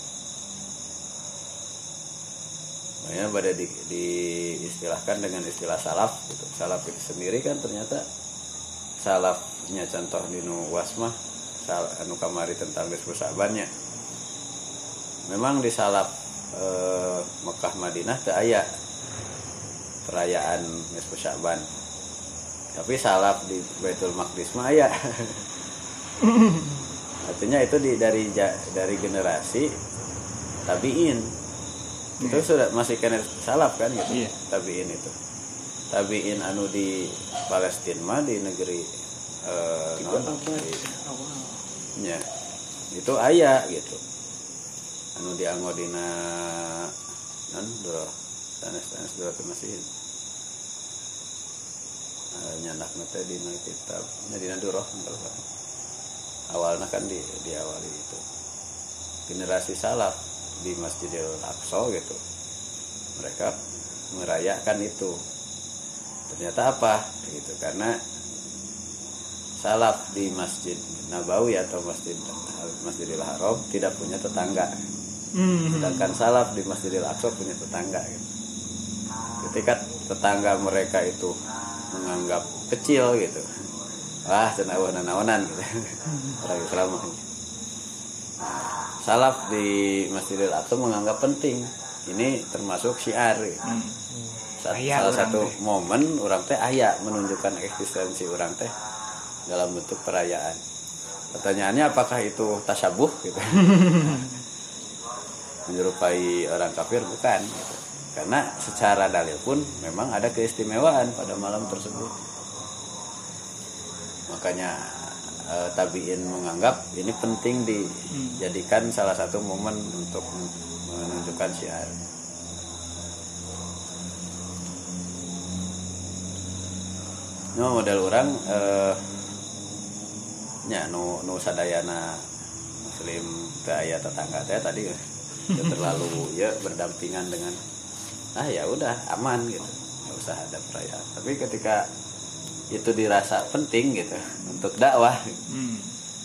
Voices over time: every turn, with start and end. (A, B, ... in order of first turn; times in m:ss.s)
0:03.0-0:08.0 A
0:09.0-0:13.7 A
0:15.3-0:18.7 A
0:20.0-0:21.7 A
0:22.8-0:25.5 A
0:27.2-0:29.7 A
0:30.7-0:31.3 A
0:32.2-0:32.5 B
0:32.2-0:35.2 A
0:34.1-0:34.3 B
0:35.9-0:38.9 A
0:39.4-0:40.9 A
0:40.0-0:41.7 B
0:42.0-0:42.2 A
0:42.9-0:44.0 A
0:45.2-0:47.0 A
0:47.5-0:49.9 A
0:52.3-0:55.4 A
0:56.5-0:58.2 A
0:59.3-1:02.2 A
1:03.2-1:03.6 A
1:04.1-1:05.2 A
1:06.3-1:08.0 A
1:09.6-1:14.8 A
1:15.4-1:16.0 B
1:15.6-1:18.3 A
1:19.4-1:21.4 A
1:21.9-1:23.6 A
1:24.3-1:27.2 A
1:29.0-1:33.6 A
1:33.6-1:34.0 B
1:34.6-1:38.7 A
1:34.7-1:35.6 B
1:39.5-1:40.6 A
1:41.3-1:44.3 A
1:43.8-1:44.1 B
1:45.7-1:52.2 A
1:54.3-2:02.0 A
1:58.1-1:58.4 B
2:07.6-2:09.2 A
2:10.7-2:12.3 A
2:12.8-2:17.6 A
2:18.4-2:21.8 A
2:22.7-2:25.4 A
2:25.5-2:26.0 B